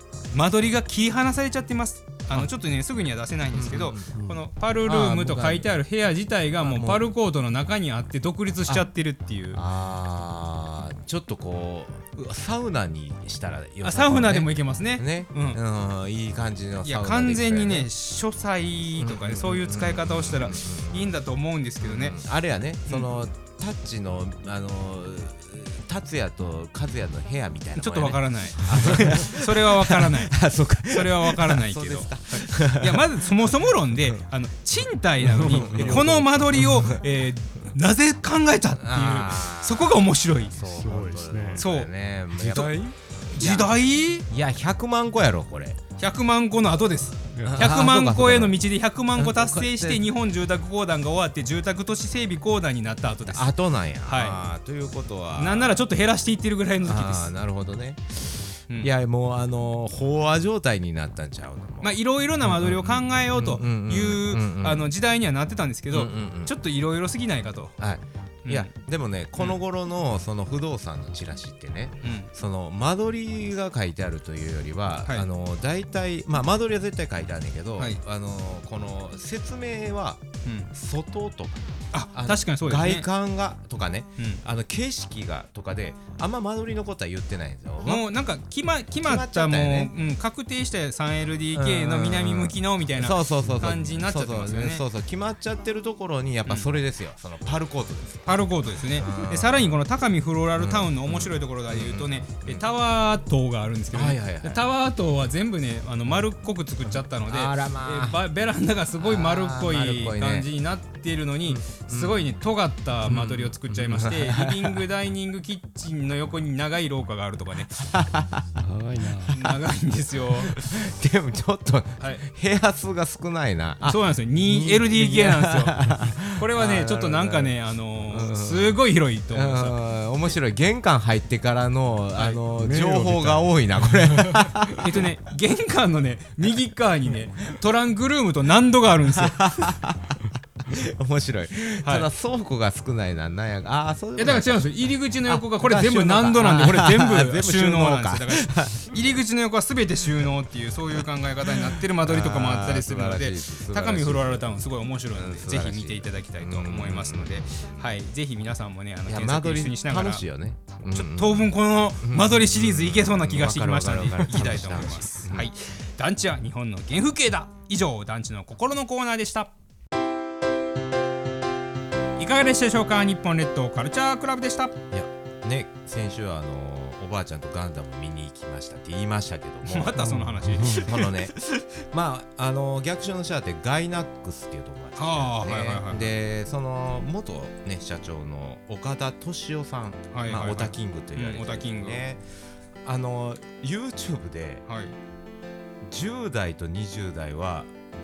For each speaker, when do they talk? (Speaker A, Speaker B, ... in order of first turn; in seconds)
Speaker A: 0.3-9.6, 13.8-15.6, 16.8-22.2, 27.8-40.5, 41.6-41.9, 43.4-44.3, 46.0-53.5, 54.0-54.4, 55.4-57.3, 61.8-67.8, 68.5-68.7, 72.0-72.3, 80.5-80.7, 81.9-83.1, 87.8-94.8, 98.3-117.8, 119.3-120.6, 123.8-129.8, 132.1-132.4, 134.8-139.4, 141.8-142.1, 144.2-160.2, 160.9-169.5, 172.2-174.7, 179.7-181.6, 185.0-186.1, 190.1-192.1, 194.7-195.0
Speaker B: 3.5-4.1, 4.8-5.7, 6.6-7.1, 9.5-17.9, 19.0-21.2, 21.8-34.2, 35.3-37.0, 38.8-45.8, 47.4-48.6, 49.1-50.1, 53.3-55.8, 56.8-64.9, 65.9-66.5, 67.8-88.1, 88.9-89.9, 91.5-98.5, 99.0-99.8, 100.6-102.7, 103.9-104.7, 106.8-108.2, 109.0-110.5, 111.5-112.3, 113.1-114.8, 117.9-118.5, 120.4-134.8, 139.2-144.6, 145.3-149.0, 151.6-154.5, 155.1-157.9, 159.1-165.5, 174.9-180.1, 180.6-192.2, 192.8-194.7, 195.9-197.7
Speaker C: 4.1-4.4, 35.2-36.7, 40.6-41.6, 42.4-43.0, 47.3-47.6, 118.5-119.4, 132.6-134.4, 180.0-180.8